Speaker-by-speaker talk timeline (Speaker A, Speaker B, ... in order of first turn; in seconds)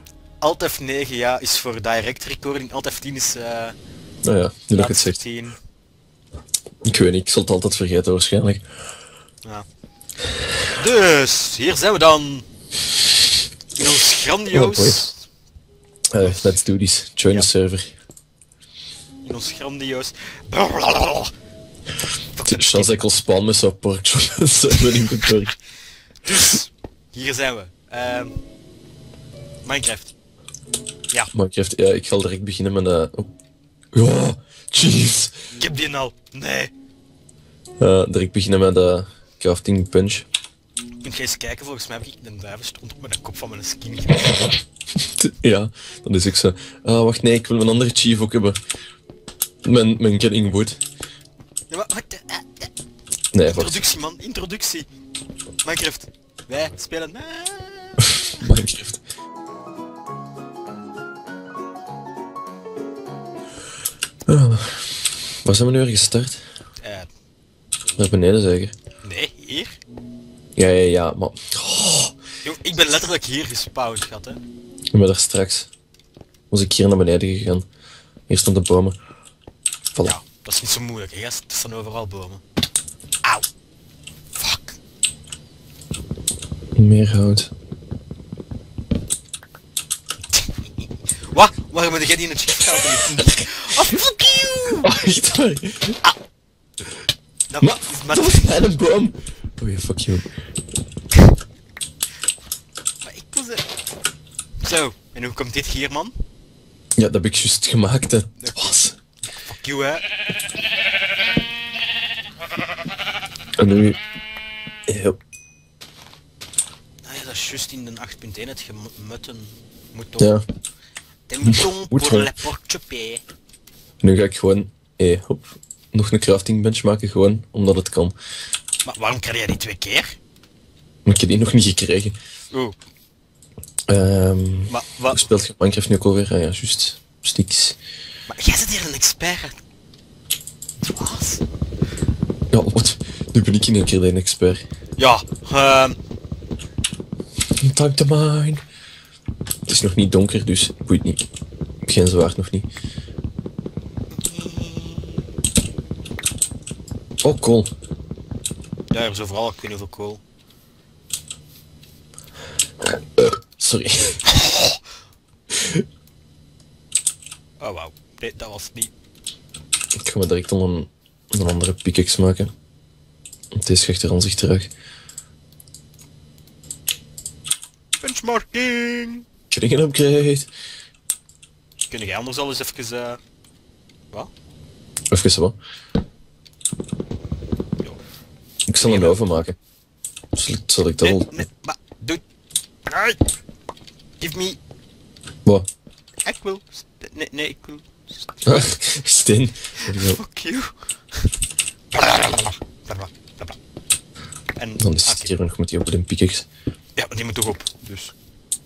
Speaker A: 0.4-3.7, 4.7-5.6, 10.7-12.4, 13.8-15.2, 16.2-16.6, 19.2-21.3, 22.4-23.0, 24.8-25.3, 26.2-28.4, 29.6-30.1, 35.6-36.7, 41.0-44.5, 51.7-52.7, 53.4-54.9, 55.6-58.5, 66.8-67.1, 69.0-69.8, 72.4-74.4, 80.0-82.4, 84.3-84.8, 91.3-94.9, 97.5-98.8, 103.0-103.7, 104.6-106.1, 108.4-108.8, 109.4-110.0, 117.0-120.4, 121.3-123.2, 128.8-130.2, 132.5-132.8, 134.7-135.3, 138.3-139.6, 140.8-141.4, 145.0-146.0, 154.1-155.2, 158.9-160.2, 164.2-164.8, 167.6-168.9, 178.0-179.2, 181.9-183.2, 188.8-189.2, 191.0-192.2, 192.9-193.2, 194.2-194.6, 196.2-198.8, 199.8-201.3, 201.9-203.6, 204.6-205.3, 207.0-208.1
Speaker B: 4.2-5.2, 6.8-8.6, 14.5-15.1, 16.1-17.9, 22.4-25.5, 31.3-33.3, 33.9-35.4, 37.8-40.2, 45.0-48.6, 49.6-50.8, 53.3-53.8, 58.4-59.0, 64.3-66.4, 68.0-68.7, 70.5-72.1, 74.9-75.7, 76.5-77.7, 78.3-79.0, 86.8-87.5, 94.8-96.0, 97.6-100.3, 107.0-109.0, 113.6-114.0, 114.9-115.2, 121.4-122.3, 124.0-128.1, 131.1-132.1, 133.9-137.8, 142.5-144.6, 147.6-148.6, 149.7-151.2, 151.8-152.7, 157.2-157.7, 162.8-164.2, 165.5-165.8, 169.9-172.5, 173.5-174.7, 179.5-180.5, 185.1-185.6, 188.7-189.6, 190.3-191.4, 198.5-200.2, 204.8-206.5